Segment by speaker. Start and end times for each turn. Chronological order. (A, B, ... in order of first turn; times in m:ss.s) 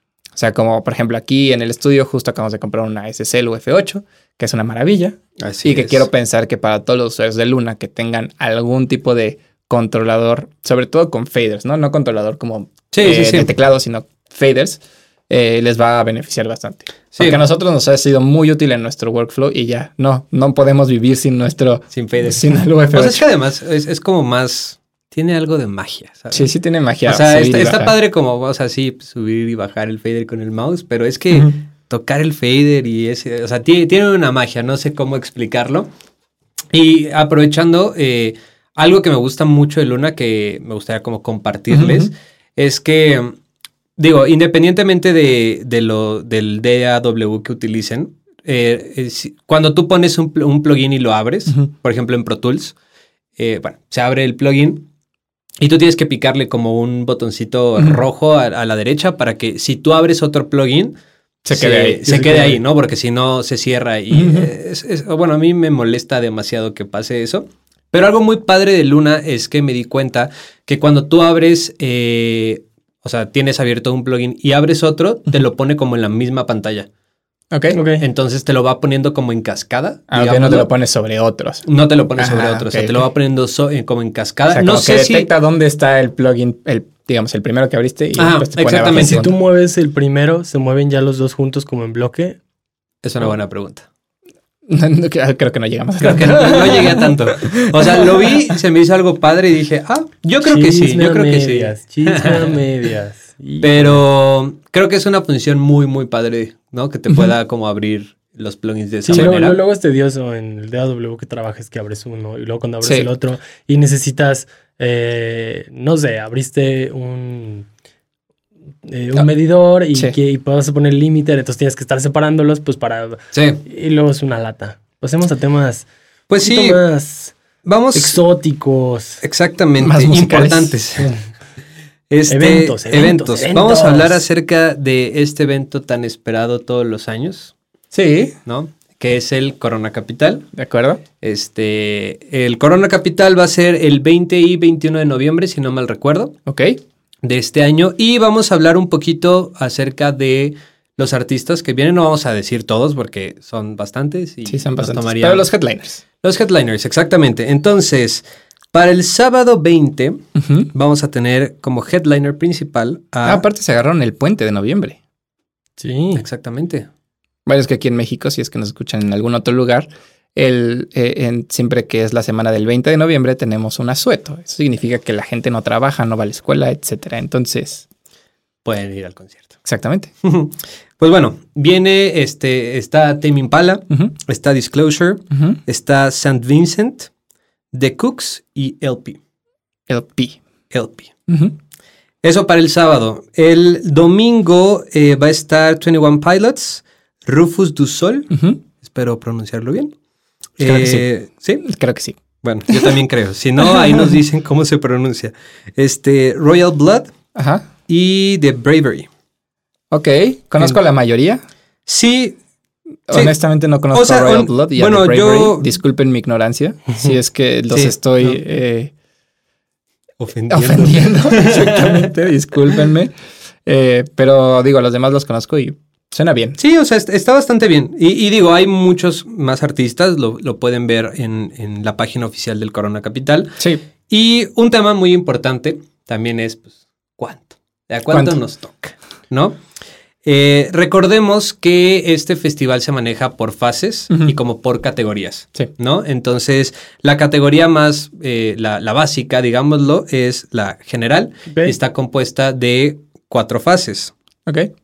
0:00.4-0:23.2 A
0:05.4-0:06.1 B
0:12.9-0:13.5 B
0:17.2-0:17.4 B
0:21.9-0:26.5 B
0:26.3-0:28.0 A
0:27.1-0:35.9 B
0:36.7-0:43.4 B
0:41.7-0:42.1 A
0:44.0-0:52.8 B
0:53.4-0:54.9 B
0:55.6-1:01.0 B
1:01.4-1:02.0 A
1:01.5-1:16.9 B
1:02.1-1:02.6 C
1:04.1-1:04.5 A
1:17.5-1:17.8 A
1:17.7-1:18.0 C
1:18.0-1:20.7 B
1:20.1-1:21.6 A
1:21.6-1:25.3 B
1:22.2-1:23.1 A
1:24.5-1:29.4 A
1:28.2-1:29.3 B
1:28.9-1:32.4 C
1:33.0-1:33.9 B
1:34.7-1:38.5 A
1:36.0-1:42.6 B
1:36.0-1:36.4 C
1:40.4-1:44.0 C
1:43.6-1:49.6 B
1:49.1-1:57.7 C
1:49.1-1:49.4 A
1:52.8-1:53.1 A
1:58.8-2:05.9 C
2:03.3-2:03.6 B
2:06.3-2:06.8 B
2:06.4-2:07.3 C
2:07.6-2:08.2 B
2:07.9-2:09.2 C
2:09.2-2:11.1 B
2:09.8-2:10.8 A
2:12.1-2:17.5 B
2:12.3-2:14.2 C
2:17.9-2:18.4 A
2:18.4-2:20.5 B
2:20.5-2:21.0 A
2:21.2-2:26.4 B
2:26.5-2:26.8 A
2:27.2-2:35.5 B
2:34.5-2:36.0 A
2:36.2-2:43.4 B
2:40.4-2:40.7 A
2:43.2-2:45.0 A
2:45.8-2:46.2 C
2:46.2-2:46.9 B
2:47.5-2:57.8 A
2:58.6-2:59.5 B
2:59.6-3:00.1 A
3:00.2-3:07.1 B
3:07.7-3:09.2 B
3:09.9-3:10.4 A
3:10.7-3:11.1 B
3:11.3-3:11.6 A
3:12.2-3:19.9 B
3:18.3-3:18.6 A
3:20.6-3:21.6 B
3:20.6-3:21.1 A
3:21.6-3:22.2 A
3:22.4-3:27.1 B
3:22.7-3:23.0 A
3:23.7-3:24.1 A
3:27.4-3:27.7 A
3:27.9-3:29.1 B
3:29.9-3:31.4 A
3:31.9-3:32.4 B
3:33.1-3:38.9 A
3:33.1-3:33.4 B
3:33.9-3:35.7 B
3:37.7-3:38.4 B
3:40.2-3:42.1 B
3:40.5-3:43.1 A
3:43.7-3:46.6 A
3:46.6-3:59.6 B
3:58.1-3:58.4 A
4:00.2-4:14.1 B
4:14.5-4:14.7 A